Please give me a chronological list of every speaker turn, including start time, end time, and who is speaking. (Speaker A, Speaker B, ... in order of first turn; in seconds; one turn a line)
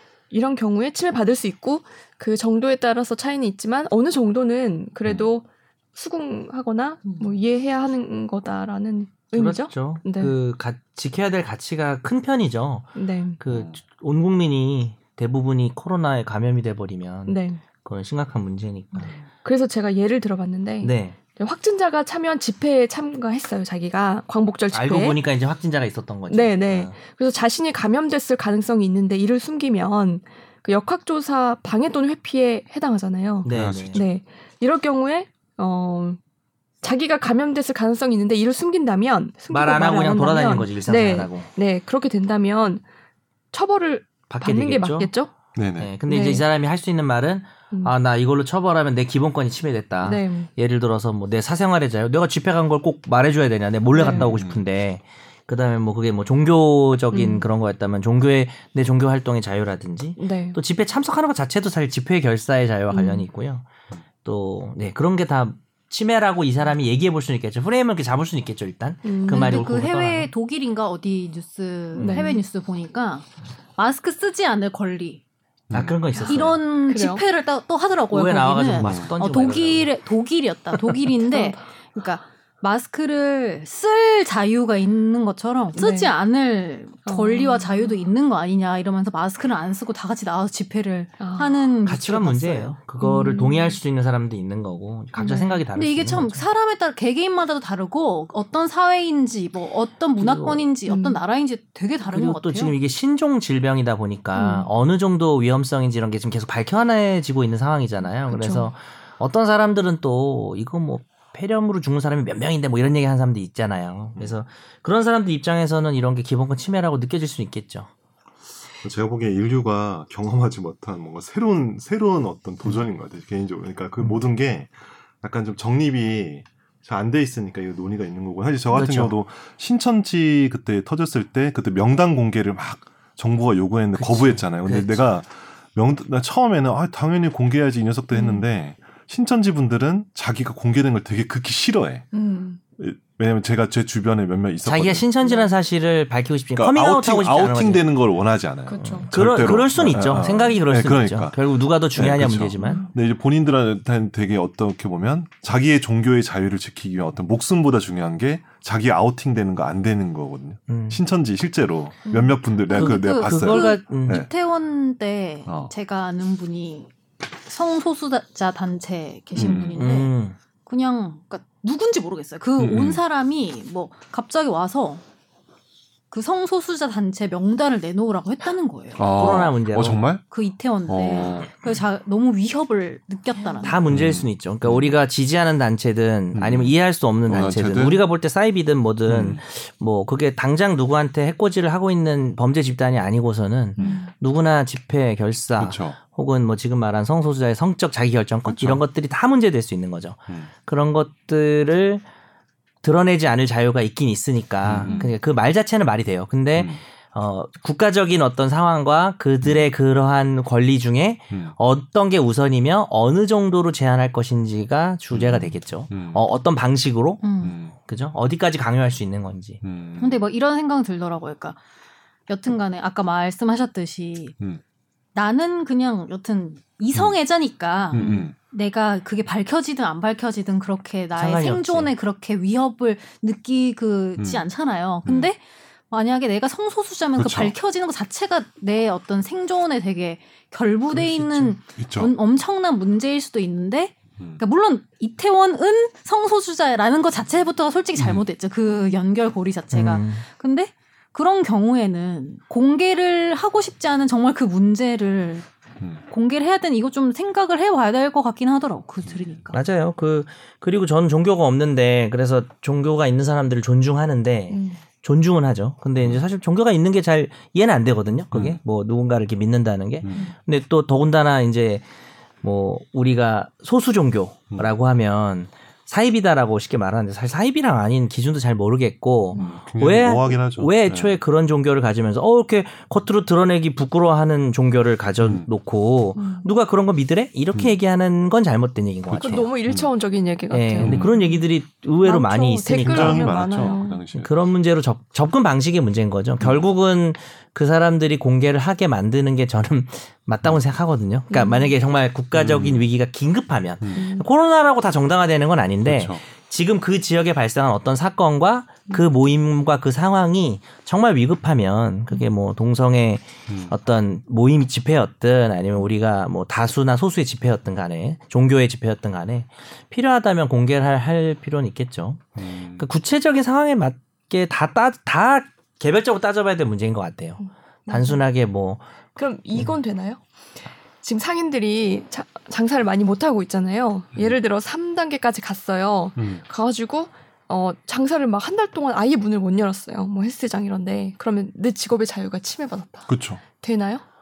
Speaker A: 0.3-10.3
Speaker B: 9.3-19.1
Speaker A: 12.9-13.4
Speaker C: 13.5-13.8
Speaker A: 17.3-17.6
Speaker A: 19.4-25.2
Speaker B: 20.8-21.2
Speaker B: 24.7-27.0
Speaker A: 26.3-36.2
Speaker B: 33.4-34.0
Speaker C: 33.5-34.1
Speaker A: 36.8-42.8
Speaker B: 39.5-41.5
Speaker A: 43.5-45.3
Speaker B: 44.3-45.1
Speaker C: 45.5-45.9
Speaker B: 45.8-63.7
Speaker A: 46.1-46.4
Speaker A: 50.0-50.5
Speaker A: 53.9-54.4
Speaker C: 54.1-54.6
Speaker A: 57.1-57.5
Speaker A: 60.2-60.6
Speaker A: 62.9-63.3
Speaker B: 64.2-70.3
Speaker A: 69.0-69.6
Speaker D: 69.3-75.2
Speaker B: 72.0-72.3
Speaker A: 72.0-72.4
Speaker C: 75.7-76.0
Speaker B: 75.7-76.6
Speaker D: 76.2-92.8
Speaker A: 76.9-77.2
Speaker B: 78.1-79.9
Speaker C: 78.8-79.2
Speaker A: 81.3-81.6
Speaker A: 85.7-86.1
Speaker A: 87.0-88.1
Speaker A: 91.2-91.7
Speaker B: 91.8-96.4
Speaker A: 93.0-93.8
Speaker A: 95.1-95.6
Speaker D: 95.7-102.8
Speaker B: 100.2-100.7
Speaker A: 100.9-101.2
Speaker B: 102.0-117.9
Speaker A: 104.3-104.7
Speaker A: 108.2-108.7
Speaker C: 118.8-142.1
Speaker B: 128.7-129.2
Speaker B: 133.9-135.1
Speaker A: 138.1-138.4
Speaker A: 142.1-142.6
Speaker C: 142.8-145.1
Speaker B: 144.6-147.9
Speaker C: 146.5-164.3
Speaker A: 148.7-149.1
Speaker B: 148.8-152.9
Speaker A: 152.6-152.9
Speaker B: 160.7-161.0
Speaker A: 162.1-162.3
Speaker B: 162.7-164.3
Speaker D: 162.7-166.9
Speaker C: 165.4-165.7
Speaker D: 167.4-170.1
Speaker C: 169.3-169.8
Speaker B: 169.4-170.4
Speaker D: 170.7-175.0
Speaker C: 172.6-173.0
Speaker D: 176.1-179.1
Speaker C: 178.9-180.2
Speaker B: 179.1-180.0
Speaker D: 180.3-183.8
Speaker C: 180.9-181.8
Speaker A: 183.3-183.8
Speaker B: 183.6-202.0
Speaker C: 183.9-185.0
Speaker C: 186.3-186.7
Speaker C: 187.2-188.0
Speaker C: 189.1-189.4
Speaker A: 193.8-194.1
Speaker C: 195.6-196.0
Speaker C: 198.4-198.8
Speaker B: 202.8-219.6
Speaker C: 204.6-205.1
Speaker A: 204.8-205.1
Speaker C: 206.5-206.8
Speaker C: 209.4-209.7
Speaker C: 215.1-216.2
Speaker D: 217.2-217.5
Speaker C: 217.4-217.8
Speaker C: 219.6-220.2
Speaker D: 220.0-221.6
Speaker D: 222.3-224.3
Speaker D: 225.1-235.4
Speaker C: 227.9-228.3
Speaker B: 231.2-231.9
Speaker C: 234.2-234.4
Speaker C: 235.0-235.3
Speaker D: 235.9-255.5
Speaker C: 237.2-237.5
Speaker C: 241.3-242.1
Speaker C: 248.0-248.2
Speaker B: 249.7-250.2
Speaker D: 256.0-259.6
Speaker C: 259.1-259.4
Speaker B: 259.5-271.9
Speaker A: 264.5-264.8
Speaker C: 266.0-266.2
Speaker C: 268.3-268.6
Speaker C: 270.0-270.3
Speaker B: 272.4-289.5
Speaker A: 279.3-279.6
Speaker C: 279.4-281.2
Speaker C: 285.2-285.5
Speaker A: 286.1-286.4
Speaker C: 289.1-289.9
Speaker A: 289.2-291.4
Speaker B: 290.5-328.8
Speaker C: 290.8-291.1
Speaker A: 292.0-294.0
Speaker C: 292.8-294.4
Speaker A: 301.3-301.7
Speaker C: 302.3-302.9
Speaker C: 303.8-304.1
Speaker A: 303.9-304.3
Speaker C: 305.8-306.2
Speaker C: 313.5-313.7
Speaker C: 322.4-322.9
Speaker A: 327.4-328.2
Speaker A: 329.2-330.2
Speaker A: 331.0-344.0
Speaker C: 336.2-336.4
Speaker C: 343.1-343.4